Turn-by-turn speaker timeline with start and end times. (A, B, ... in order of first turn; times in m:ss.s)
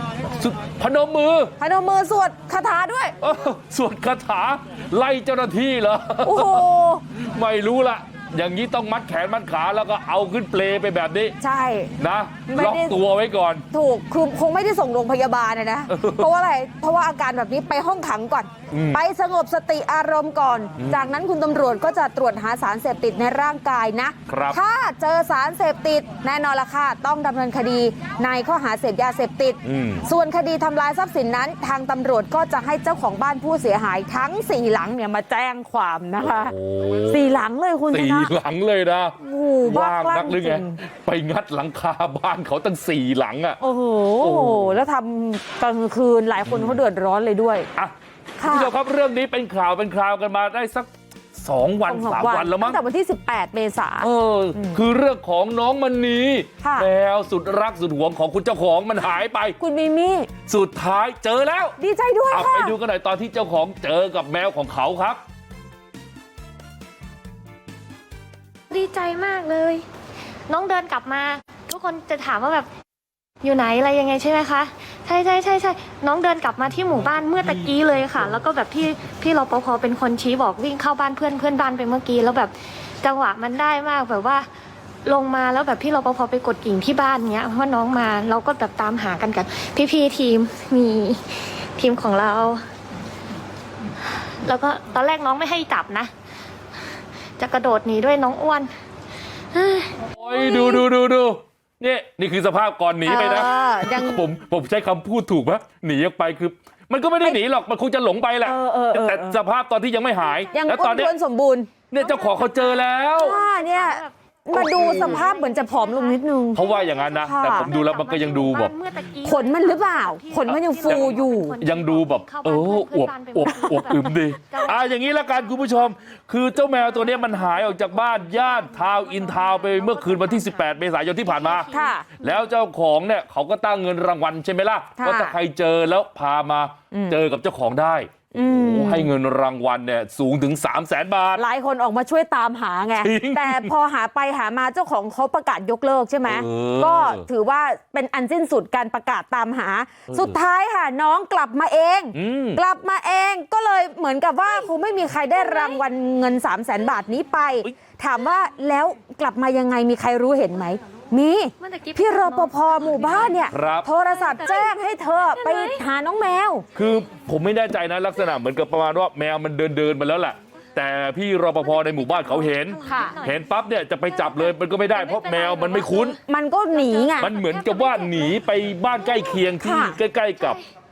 0:00.4-0:01.5 A
0:01.6-0:03.1 B
0:03.2-0:06.6 A
0:06.2-0:07.0 B
0:07.2-0:11.4 A
0:11.4-0:11.9 B
0:12.0-0:13.6 A
0:12.5-0:13.0 B
0:13.7-0:36.5 B
0:15.9-0:16.3 A
0:18.7-0:19.0 A
0:20.8-0:21.0 A
0:24.3-0:24.6 A
0:29.6-0:30.0 A
0:36.2-0:37.2 A
0:37.1-0:38.3 B
0:37.9-0:43.6 A
0:39.2-0:40.8 B
0:43.6-0:47.7 B
0:44.2-0:44.8 A
0:46.5-0:46.8 A
0:47.8-0:52.8 A
0:48.4-0:48.7 B
0:51.9-0:54.8 B
0:54.0-0:59.6 A
0:56.6-0:56.9 B
0:59.6-1:00.3 B
1:00.5-1:01.7 A
1:01.8-1:02.7 B
1:02.3-1:05.2 A
1:08.7-1:09.8 C
1:10.5-1:12.7 C
1:13.4-1:24.5 C
1:25.0-1:32.6 C
1:34.4-1:36.1 C
1:37.4-1:38.7 C
1:39.5-1:40.7 C
1:40.2-1:51.1 A
1:43.0-1:44.2 B
1:48.4-1:49.4 B
1:50.2-1:50.5 C
1:50.5-1:51.7 B
1:51.9-1:53.4 A
1:52.0-2:05.9 C
1:53.2-1:56.6 B
1:54.5-1:55.3 A
1:56.5-1:58.7 A
1:57.2-1:57.7 B
1:59.2-2:01.6 B
2:00.5-2:21.4 A
2:06.7-2:12.4 C
2:11.7-2:12.0 B
2:15.0-2:15.3 B
2:16.9-2:17.2 B
2:18.3-2:19.1 B
2:21.4-2:46.6 B
2:23.0-2:23.7 A
2:26.2-2:27.2 A
2:30.1-2:30.4 A
2:32.1-2:32.6 A
2:35.5-2:35.8 C
2:41.6-2:43.6 C
2:43.5-2:43.9 A
2:44.1-2:44.7 C
2:45.3-2:45.8 C
2:46.8-2:56.2 A
2:51.6-2:56.2 C
2:52.8-2:53.2 B
2:56.3-2:57.3 B
2:56.7-2:59.6 C
2:57.2-3:00.6 A
2:59.6-3:00.0 B
3:00.4-3:00.6 C